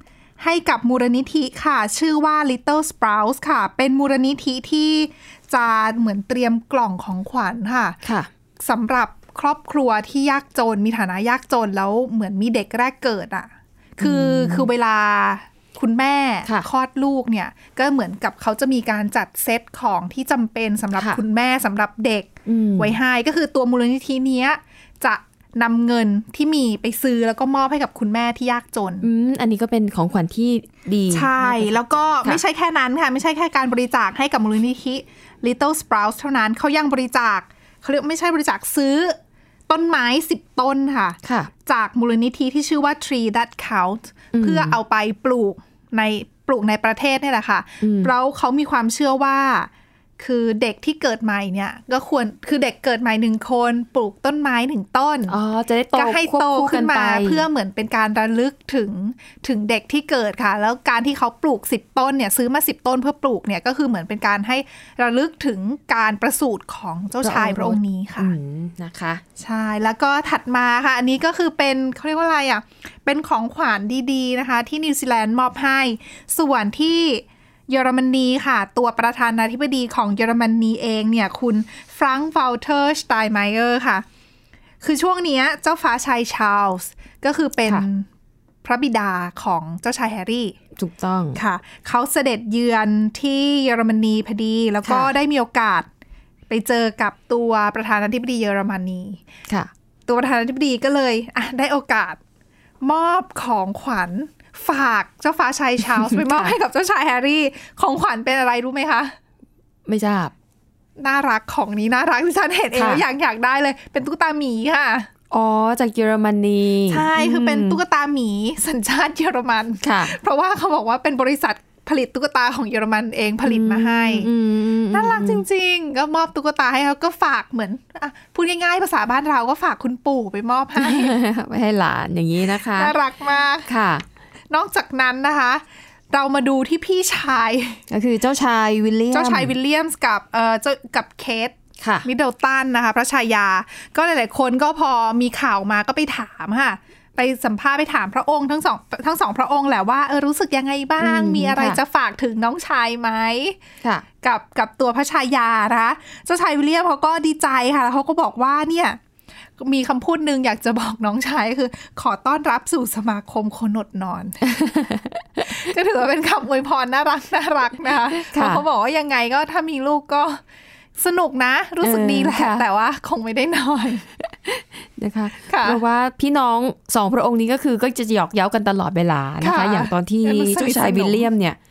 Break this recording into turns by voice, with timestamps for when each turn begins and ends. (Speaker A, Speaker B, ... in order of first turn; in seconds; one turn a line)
Speaker A: 0.4-8.0
Speaker B: 8.0-8.3
Speaker A: 8.6-29.1
Speaker B: 14.0-14.7
Speaker B: 22.5-23.0
Speaker B: 29.0-32.4
Speaker A: 31.1-39.2
Speaker A: 39.7-55.4
Speaker B: 41.2-41.5
Speaker B: 44.3-44.8
Speaker B: 47.8-48.1
Speaker B: 55.3-57.5
Speaker A: 56.0-68.3
Speaker B: 67.2-69.2
Speaker A: 69.4-84.0
Speaker A: 84.8-88.0
Speaker A: 88.6-90.5
Speaker B: 90.8-91.4
Speaker A: 91.3-95.9
Speaker B: 94.9-95.1
Speaker A: 96.5-99.2
Speaker A: 100.1-102.2
Speaker A: 102.8-109.2
Speaker B: 105.9-106.5
Speaker B: 109.9-110.3
Speaker A: 111.0-115.1
Speaker B: 112.8-113.0
Speaker B: 115.3-117.8
Speaker A: 116.9-124.3
Speaker B: 119.8-120.2
Speaker B: 123.5-125.4
Speaker A: 124.9-131.1
Speaker B: 130.8-132.9
Speaker A: 132.5-133.7
Speaker B: 133.7-134.0
Speaker A: 134.5-137.8
Speaker B: 137.9-139.5
Speaker A: 139.1-153.6
Speaker B: 141.8-142.1
Speaker B: 151.0-151.8
Speaker A: 154.2-159.0
Speaker A: 159.6-164.4
Speaker B: 164.4-165.6
Speaker A: 165.5-170.4
Speaker B: 168.1-168.6
Speaker A: 171.0-174.1
Speaker B: 171.8-172.6
Speaker B: 174.4-181.6
Speaker A: 175.5-175.8
Speaker A: 179.4-181.3